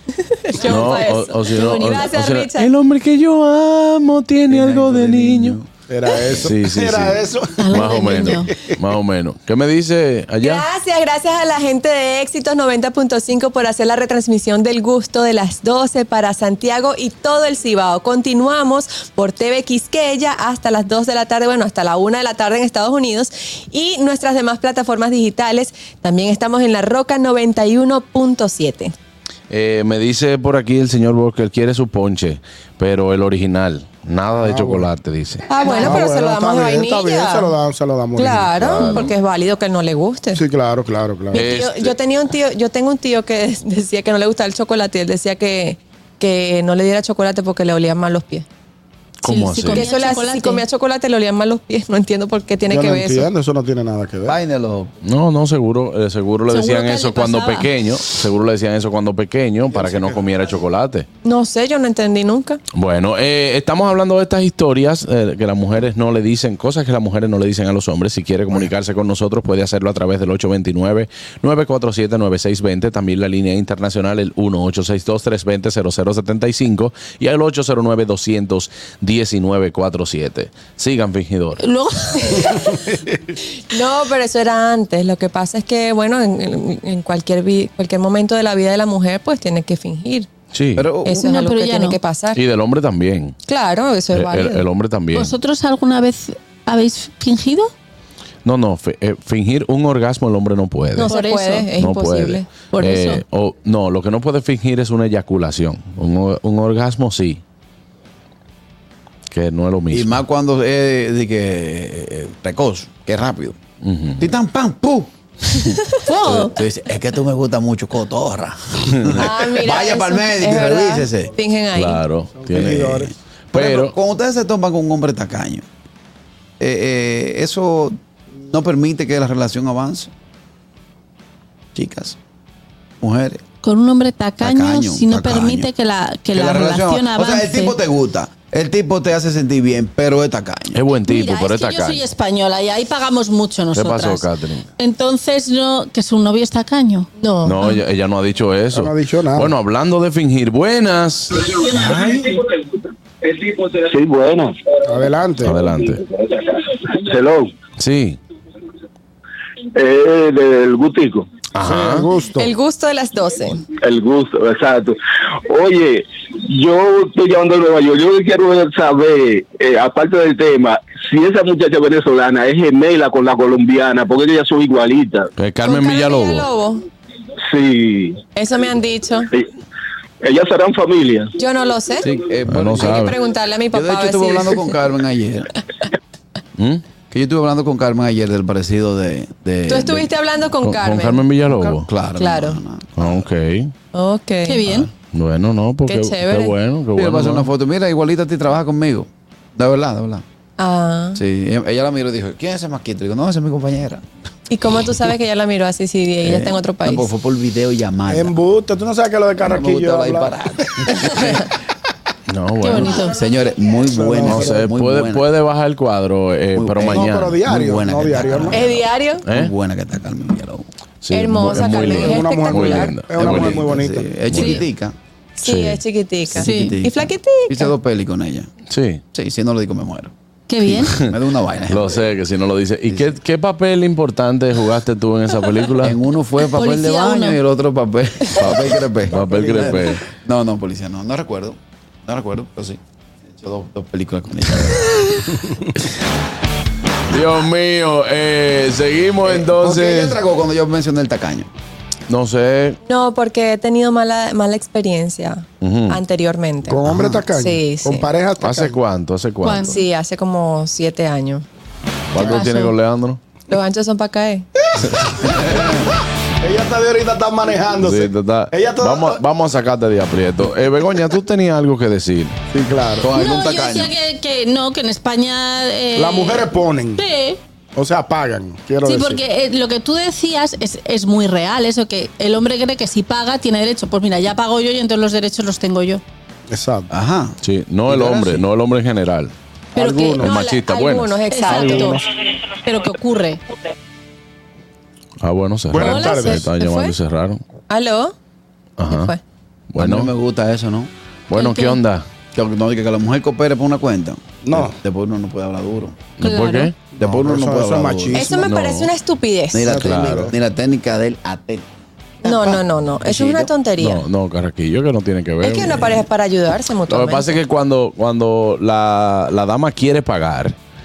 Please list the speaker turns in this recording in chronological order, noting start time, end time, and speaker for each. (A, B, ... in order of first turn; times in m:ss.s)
0:00.2-0:02.7 A
0:00.6-0:05.6 B
0:04.5-0:05.7 C
0:05.9-0:08.7 D
0:06.3-0:07.2 B
0:07.6-0:08.5 E
0:07.7-0:10.6 B
0:10.4-0:28.9 A
0:29.5-0:35.5 B
0:34.4-0:34.9 D
0:35.5-0:37.5 A
0:35.6-0:38.6 D
0:35.6-0:36.0 E
0:38.1-0:40.4 A
0:38.6-0:39.1 B
0:40.3-0:41.5 D
0:41.3-0:48.4 A
0:41.3-0:41.9 B
0:49.2-0:49.8 B
0:49.2-0:50.6 E
0:49.7-0:53.3 A
0:52.7-0:54.4 D
0:54.2-0:54.9 C
0:55.0-1:01.1 B
0:56.5-0:57.7 E
0:59.8-1:00.2 D
1:01.2-1:02.6 A
1:02.7-1:21.6 B
1:21.6-1:22.8 E
1:22.9-1:23.3 D
1:23.7-1:30.3 A
1:30.5-1:30.9 B
1:30.8-1:31.2 C
1:31.0-1:32.4 A
1:31.1-1:32.0 E
1:32.3-1:33.4 B
1:33.5-1:34.6 A
1:34.1-1:35.3 B
1:35.1-1:37.7 E
1:38.4-1:41.1 B
1:41.0-1:42.5 A
1:41.0-1:41.7 E
1:41.8-1:47.4 B
1:42.7-1:43.2 E
1:49.3-1:50.2 B
1:49.9-1:53.6 C
1:53.8-1:54.3 B
1:54.2-1:55.1 C
1:56.0-1:56.5 E
1:56.2-2:01.3 C
1:58.9-1:59.3 B
1:59.2-2:02.0 A
2:01.7-2:03.9 B
2:02.4-2:03.1 D
2:03.5-2:05.6 C
2:06.6-2:10.1 C
2:11.7-2:12.2 C
2:13.0-2:13.4 C
2:13.6-2:17.8 E
2:14.4-2:15.7 C
2:16.3-2:20.8 C
2:20.7-2:22.0 B
2:21.0-2:24.2 E
2:23.7-2:24.7 B
2:24.8-2:27.1 E
2:27.2-2:27.8 A
2:27.4-2:31.4 B
2:28.7-2:29.5 D
2:31.6-2:32.4 D
2:33.3-2:34.5 F
2:34.8-2:35.5 D
2:35.4-2:36.0 B
2:36.2-2:37.5 F
2:37.8-2:38.2 B
2:39.7-2:41.3 F
2:41.5-2:42.1 B
2:41.6-2:42.5 D
2:42.4-2:43.6 A
2:43.8-2:55.3 F
2:55.4-2:56.5 B
2:55.6-2:56.8 A
2:57.4-2:58.2 F
2:58.4-2:59.3 A
3:00.2-3:01.3 F
3:01.4-3:02.1 A
3:02.0-3:03.1 C
3:02.4-3:03.1 B
3:02.8-3:04.7 A
3:03.7-3:05.5 C
3:06.6-3:06.8 B
3:07.1-3:10.1 C
3:09.7-3:11.2 A
3:10.6-3:11.9 B
3:11.5-3:13.2 C
3:12.2-3:12.6 A
3:13.0-3:13.7 B
3:13.9-3:14.6 A
3:14.5-3:14.9 E
3:14.6-3:17.5 B
3:15.8-3:16.5 A
3:17.0-3:20.2 C
3:20.6-3:21.2 A
3:21.1-3:24.0 C
3:24.5-3:27.1 A
3:26.2-3:28.4 C
3:28.1-3:30.3 D
3:29.4-3:31.4 C
3:32.3-3:33.0 B
3:32.6-3:33.2 E
3:33.0-3:35.3 C
3:33.9-3:34.6 D
3:34.2-3:37.4 B
3:36.6-3:40.6 C
3:36.9-3:38.6 D
3:38.5-3:39.2 A
3:39.2-3:39.5 B
3:41.0-3:43.7 B
3:41.1-3:43.0 A
3:41.7-3:44.1 D
3:43.2-3:44.9 C
3:44.3-3:44.6 B
3:45.4-3:47.7 A
3:45.4-3:45.8 B
3:46.3-3:48.5 C
3:46.4-3:46.8 E
3:48.7-3:49.0 B
3:49.1-3:50.1 C
3:50.5-3:51.0 E
3:50.7-3:51.1 B
3:50.9-3:52.1 C
3:51.7-3:56.0 B
3:52.9-3:53.1 C
3:55.8-4:05.0 C
3:56.4-3:57.4 E
3:58.4-4:00.0 B
4:07.1-4:10.2 B
4:09.2-4:11.5 C
4:12.1-4:12.8 B
4:12.8-4:18.1 A
4:15.6-4:16.0 B
4:16.6-4:18.8 D
4:16.9-4:17.2 C
4:18.4-4:19.8 B
4:19.4-4:19.8 E
4:19.7-4:21.4 A
4:22.1-4:23.2 B
4:22.2-4:22.7 A
4:23.5-4:24.5 A
4:25.3-4:25.8 C
4:26.4-4:29.2 D
4:27.8-4:32.4 B
4:32.5-4:33.1 D
4:33.0-4:33.9 C
4:33.1-4:37.4 E
4:36.0-4:37.0 D
4:37.8-4:39.2 D
4:38.8-4:46.0 E
4:46.5-4:46.9 D
4:46.9-4:48.4 C
4:47.4-4:49.3 B
4:49.7-4:50.3 D
4:49.7-4:50.5 E
4:50.2-4:51.6 B
4:50.3-4:52.0 A
4:51.3-4:52.0 E
4:51.5-4:52.0 D
4:52.6-4:53.4 E
4:55.2-4:57.4 B
4:55.7-4:56.4 D
4:55.8-4:56.9 A
4:55.8-4:56.4 E
4:57.7-4:58.1 A
4:58.8-4:59.1 B
4:58.9-4:59.2 A
4:59.7-5:00.1 B
4:59.8-5:00.9 C
5:01.3-5:02.0 B
5:01.3-5:01.8 E
5:02.3-5:06.0 C
5:04.4-5:04.7 D
5:06.2-5:06.7 B
5:06.2-5:06.7 E
5:06.9-5:08.5 D
5:07.0-5:08.2 C
5:08.1-5:09.9 A
5:08.4-5:08.9 B
5:09.5-5:11.6 C
5:09.6-5:10.3 D
5:09.8-5:10.3 B
5:12.2-5:13.5 C
5:12.2-5:14.0 A
5:13.8-5:16.1 B
5:15.4-5:17.3 A
5:16.9-5:20.6 B